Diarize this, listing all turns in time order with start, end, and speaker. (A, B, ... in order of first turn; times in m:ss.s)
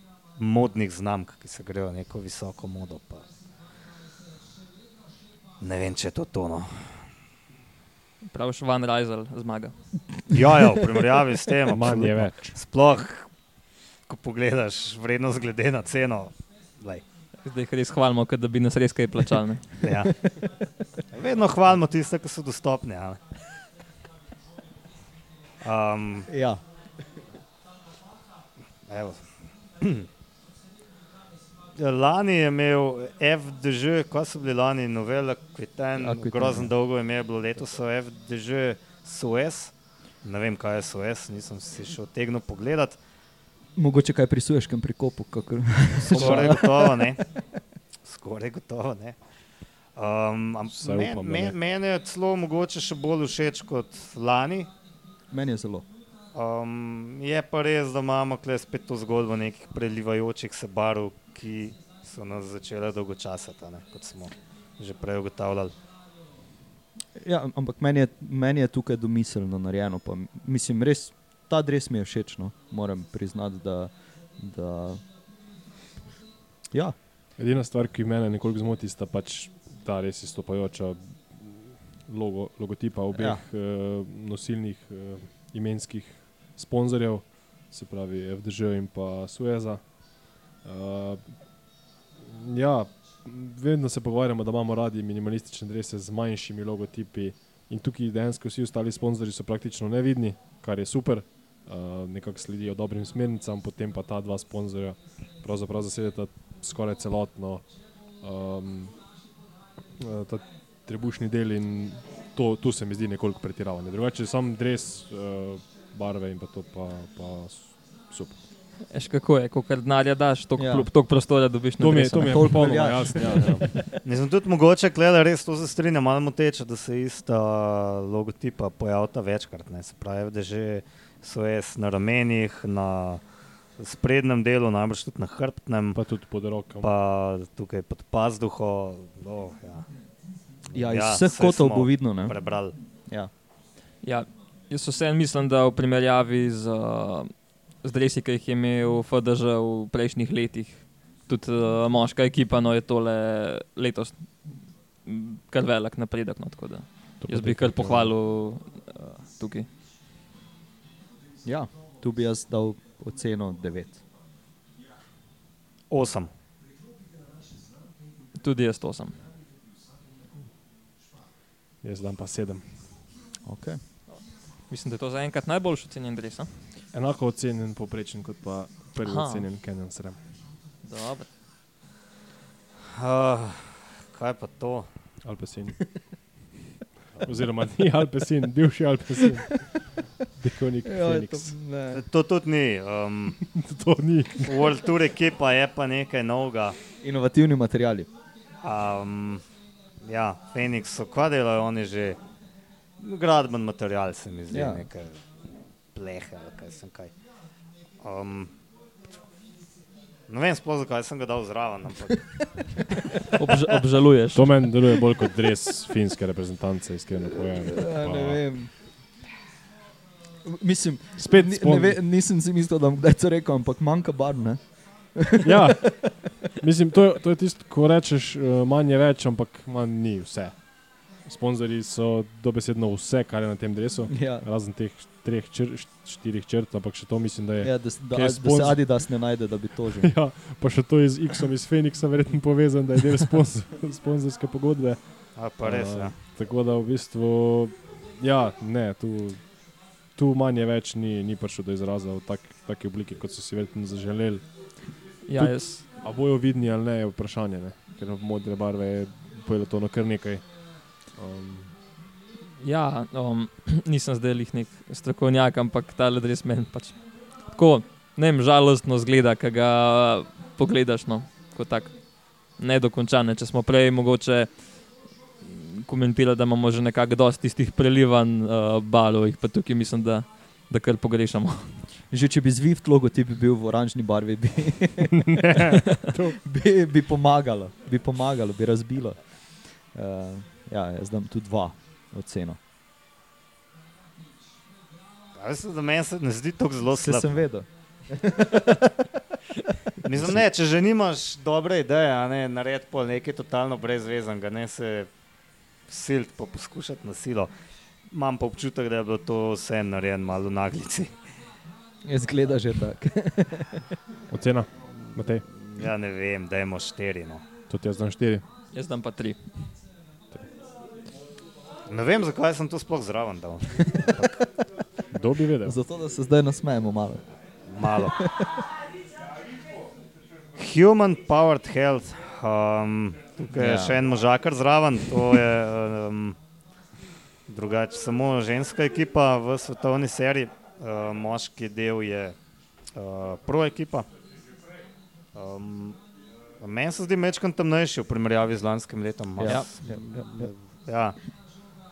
0:00.4-0:03.2 A
0:05.6-0:06.9 A
0:08.3-0:09.7 B
0:10.3-0:13.3 A
0:11.7-0:12.6 C
0:14.1-0:17.0 A
0:17.4-0:19.7 B
0:19.8-0:20.1 A
0:21.1-0:23.2 A
0:25.6-0:26.3 A
0:26.3-0:26.6 D
0:28.9-0:29.2 A
0:29.8-0:30.1 A
0:31.8-0:39.7 A
0:36.0-0:36.7 D
0:40.2-0:43.0 A
0:43.8-0:47.2 D
0:46.0-0:47.2 A
0:46.2-0:46.4 C
0:48.0-0:49.2 A
0:50.0-0:54.7 A
0:50.7-0:51.6 C
0:55.3-0:55.9 D
0:56.3-1:05.7 A
1:07.2-1:15.0 D
1:17.4-1:31.5 C
1:23.1-1:23.4 D
1:32.2-1:49.0 C
1:50.0-1:58.4 C
1:58.9-2:02.9 B
2:00.6-2:00.9 D
2:01.8-2:03.8 C
2:02.3-2:04.0 D
2:04.0-2:13.2 A
2:13.8-2:16.1 A
2:15.9-2:16.9 C
2:16.8-2:19.9 A
2:20.7-2:22.8 A
2:20.7-2:22.4 D
2:24.0-2:34.3 B
2:35.0-2:39.7 B
2:37.2-2:38.1 C
2:41.4-2:44.0 D
2:45.9-2:46.3 A
2:48.4-2:49.2 B
2:51.8-2:52.7 C
2:53.4-2:53.8 D
2:54.1-2:56.5 B
2:56.9-3:00.2 C
2:59.0-2:59.4 B
3:00.8-3:01.3 B
3:03.0-3:04.9 A
3:05.2-3:06.0 C
3:07.2-3:11.6 C
3:10.8-3:12.0 D
3:11.9-3:13.4 A
3:13.4-3:14.7 C
3:14.4-3:16.8 A
3:17.0-3:18.1 D
3:18.6-3:19.4 A
3:20.0-3:22.2 A
3:23.0-3:25.2 A
3:24.5-3:24.9 D
3:26.0-3:27.1 A
3:28.0-3:28.5 A
3:30.3-3:32.2 A
3:33.3-3:34.6 B
3:34.3-3:38.4 C
3:37.7-3:38.7 D
3:40.4-3:44.6 D
3:41.2-3:42.0 C
3:45.1-3:46.3 D
3:45.4-3:59.0 C
3:54.1-3:54.5 D
3:57.6-4:00.1 D
4:00.0-4:09.6 C
4:05.4-4:06.2 A
4:10.1-4:14.5 C
4:15.3-4:15.8 B
4:15.4-4:20.5 C
4:21.1-4:21.7 C
4:22.6-4:34.8 B
4:35.4-4:41.9 B
4:42.1-4:45.8 D
4:45.2-4:46.4 C
4:46.4-4:49.4 D
4:49.9-4:52.6 D
4:55.4-4:57.4 A
4:56.9-4:59.7 D
5:00.0-5:05.1 A
5:05.9-5:07.5 A
5:08.1-5:11.1 A
5:12.0-5:13.9 D
5:14.3-5:15.4 C
5:15.5-5:17.4 A
5:17.7-5:18.4 C
5:18.7-5:19.4 B
5:21.9-5:24.5 A
5:25.1-5:25.8 C
5:25.6-5:27.2 D
5:27.7-5:28.2 A
5:27.8-5:28.6 D
5:30.6-5:36.4 A
5:33.5-5:34.0 D
5:37.5-5:42.4 A
5:42.9-5:44.1 A
5:45.3-5:46.0 A
5:46.6-5:51.2 A
5:49.4-5:50.5 D
5:49.4-5:49.7 B